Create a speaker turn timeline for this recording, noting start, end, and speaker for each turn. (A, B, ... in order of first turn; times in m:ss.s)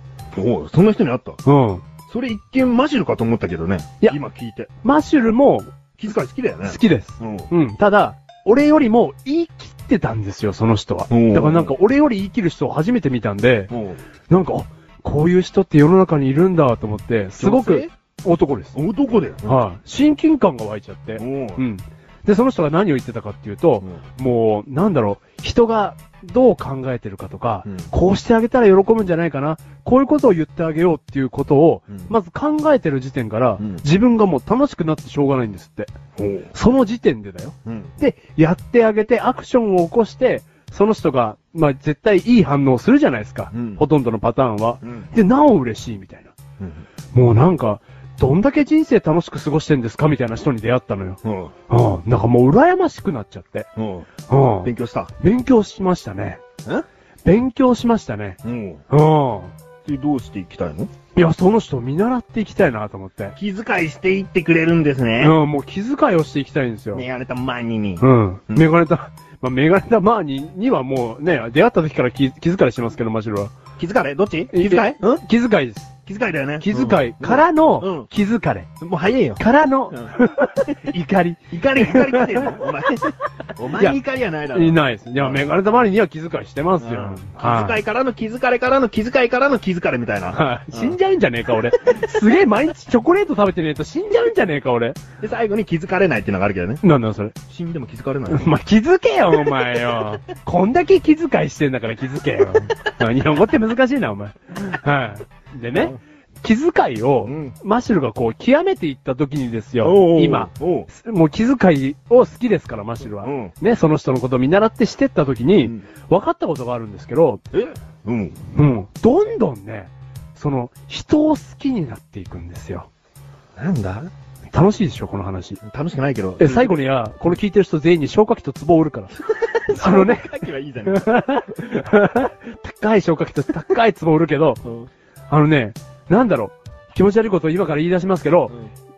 0:00.3-0:01.4 A
0:01.4-0:01.8 B
0:02.1-0:04.7 A
0:04.8-0:05.7 B
0:06.0-0:07.5 A
0:06.6-0:13.7 B
0:11.1-0:11.7 A
0:13.7-0:14.0 A
0:14.3-0:18.8 B
0:17.4-0:17.9 A
0:18.8-0:19.6 A
0:19.5-0:35.9 B
0:21.2-0:21.6 A
0:36.2-0:36.5 A
0:36.5-0:46.4 B
0:37.7-0:37.9 A
0:43.5-0:43.8 A
0:44.8-0:45.1 A
0:46.6-0:46.8 A
0:47.1-0:53.7 B
0:51.2-0:51.5 A
0:53.8-0:54.1 A
0:54.3-0:56.4 B
0:54.6-0:55.1 A
0:57.2-0:58.4 B
0:58.4-0:58.8 A
0:58.9-0:59.5 B
0:59.8-1:00.9 A
1:01.2-1:03.4 B
1:03.4-1:05.4 A
1:05.2-1:07.0 B
1:06.9-1:08.7 A
1:08.0-1:13.6 B
1:13.8-1:15.2 A
1:14.5-1:15.9 B
1:16.1-1:18.1 A
1:16.6-1:18.7 B
1:18.8-1:19.4 A
1:19.4-1:22.6 B
1:19.9-1:20.2 A
1:21.5-1:25.5 A
1:23.7-1:24.0 B
1:24.5-1:27.8 B
1:26.8-1:31.0 A
1:30.3-1:35.0 B
1:35.2-1:36.8 A
1:36.8-1:37.4 B
1:37.5-1:38.5 A
1:38.3-1:57.4 B
1:47.2-1:47.6 A
1:49.8-1:50.9 A
1:53.2-1:53.5 A
1:57.5-1:58.4 A
1:58.5-2:02.9 B
2:03.6-2:04.1 A
2:04.5-2:05.6 B
2:05.6-2:06.8 A
2:06.4-2:14.7 B
2:09.4-2:11.1 A
2:15.3-2:18.5 B